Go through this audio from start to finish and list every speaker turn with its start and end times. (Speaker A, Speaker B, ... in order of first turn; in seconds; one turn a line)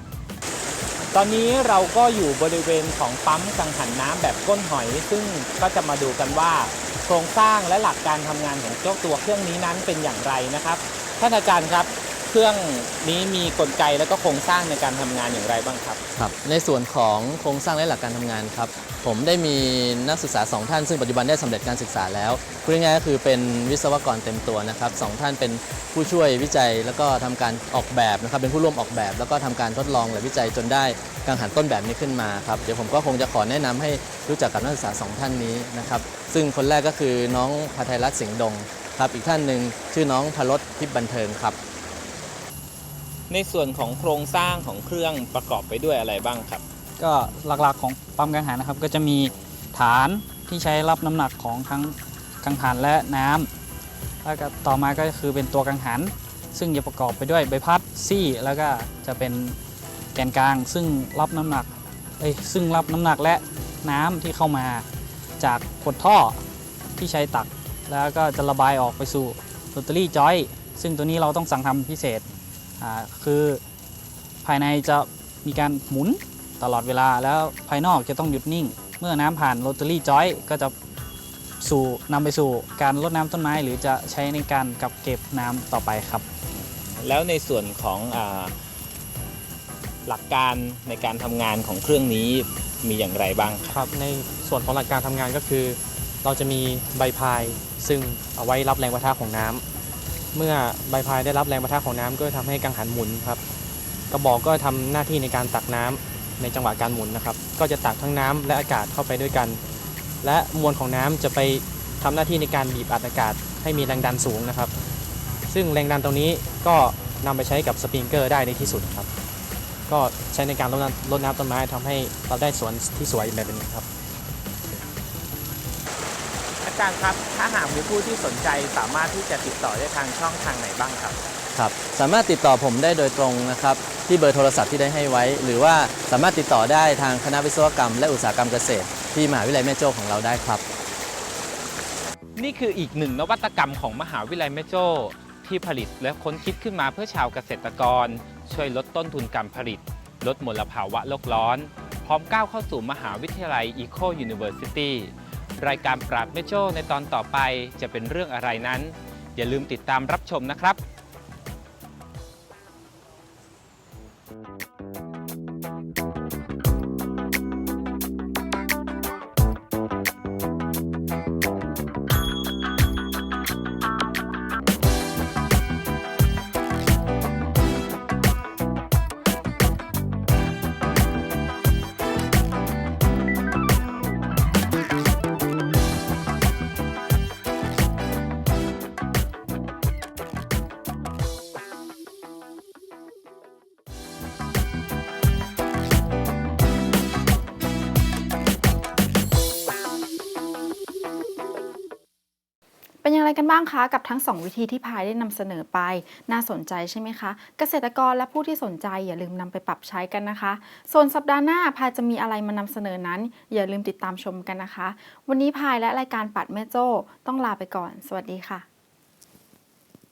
Speaker A: 1.1-16.0
Speaker B: 16.1-41.6
Speaker A: 43.3-46.6
Speaker C: 47.0-53.5
Speaker C: 54.2-59.6
Speaker C: 60.1-64.9
Speaker C: 65.4-66.4
Speaker C: 67.0-72.3
Speaker C: 72.8-73.6
Speaker C: 74.4-80.7
Speaker C: 81.6-86.3
Speaker A: 86.5-88.5
Speaker A: 90.1-93.7
Speaker D: 93.7-99.6
Speaker D: 100.3-103.4
Speaker D: 104.1-109.6
Speaker D: 110.2-114.7
Speaker D: 115.5-119.1
Speaker D: 119.9-123.9
Speaker A: 126.6-131.2
Speaker B: 131.5-140.6
Speaker A: 142.4-160.8
Speaker E: 203.0-218.7